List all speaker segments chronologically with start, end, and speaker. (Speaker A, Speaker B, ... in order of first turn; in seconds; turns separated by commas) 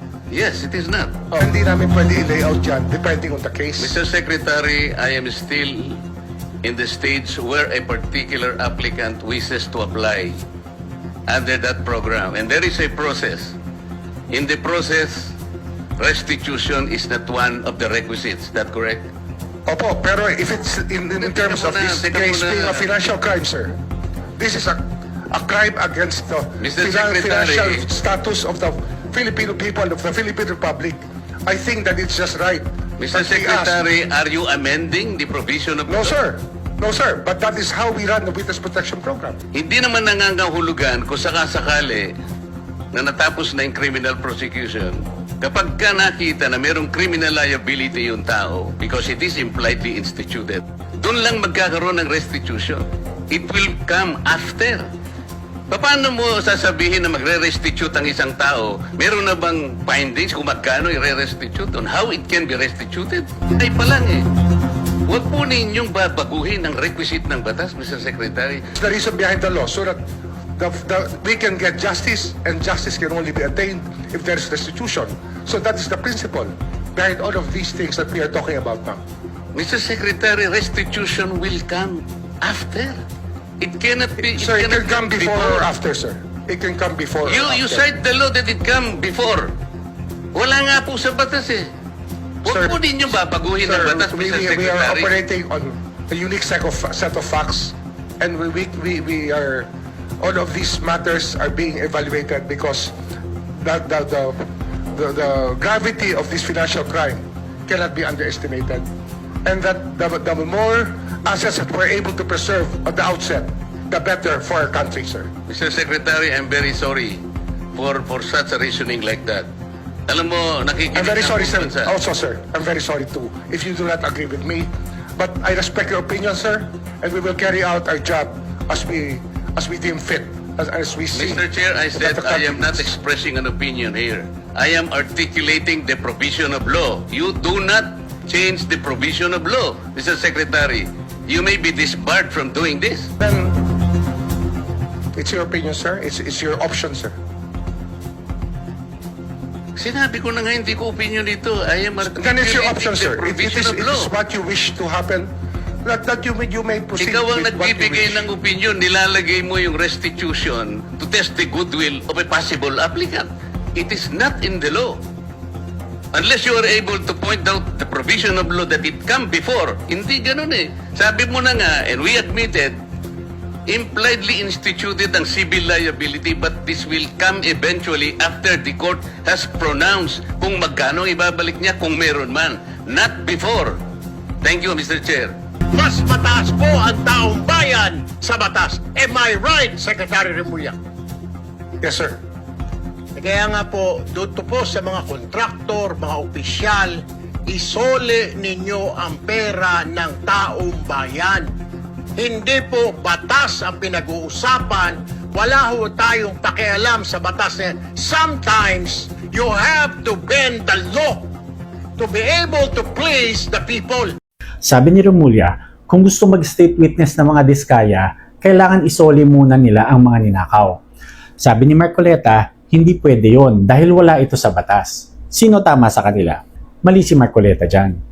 Speaker A: 0.3-1.4, Speaker B: 1.4-4.0, Speaker A: 3.8-6.0, Speaker A: 6.6-10.4, Speaker A: 11.3-13.6, Speaker A: 14.3-15.3, Speaker A: 16.0-19.1, Speaker B: 19.7-23.8, Speaker A: 21.2-22.9, Speaker B: 24.4-33.8, Speaker A: 26.6-27.9, Speaker A: 33.0-36.2, Speaker B: 35.9-39.4, Speaker A: 39.5-42.1, Speaker A: 42.9-54.9, Speaker A: 55.7-64.3, Speaker A: 65.1-68.7, Speaker B: 68.8-70.0, Speaker B: 70.6-79.0, Speaker A: 79.5-83.0, Speaker A: 83.6-85.7, Speaker B: 84.3-87.8, Speaker A: 87.2-89.5, Speaker A: 90.3-91.7, Speaker A: 92.4-95.1, Speaker B: 92.5-92.8, Speaker B: 93.6-99.7, Speaker B: 100.2-102.9, Speaker B: 103.6-104.4, Speaker B: 105.0-108.9, Speaker B: 109.5-115.3, Speaker A: 115.5-117.2, Speaker A: 117.7-119.5, Speaker A: 120.1-122.0, Speaker B: 120.9-132.9, Speaker A: 131.1-143.1, Speaker B: 143.2-143.6, Speaker B: 145.2-147.2, Speaker A: 149.8-154.1, Speaker B: 152.1-155.3, Speaker B: 155.8-158.3, Speaker A: 157.0-165.0, Speaker A: 166.2-172.8, Speaker A: 173.7-183.8, Speaker A: 184.4-185.3, Speaker C: 185.7-190.8, Speaker B: 191.8-192.2, Speaker C: 193.2-201.5, Speaker C: 202.2-211.3, Speaker C: 212.0-214.1, Speaker D: 214.6-220.8, Speaker D: 221.4-228.0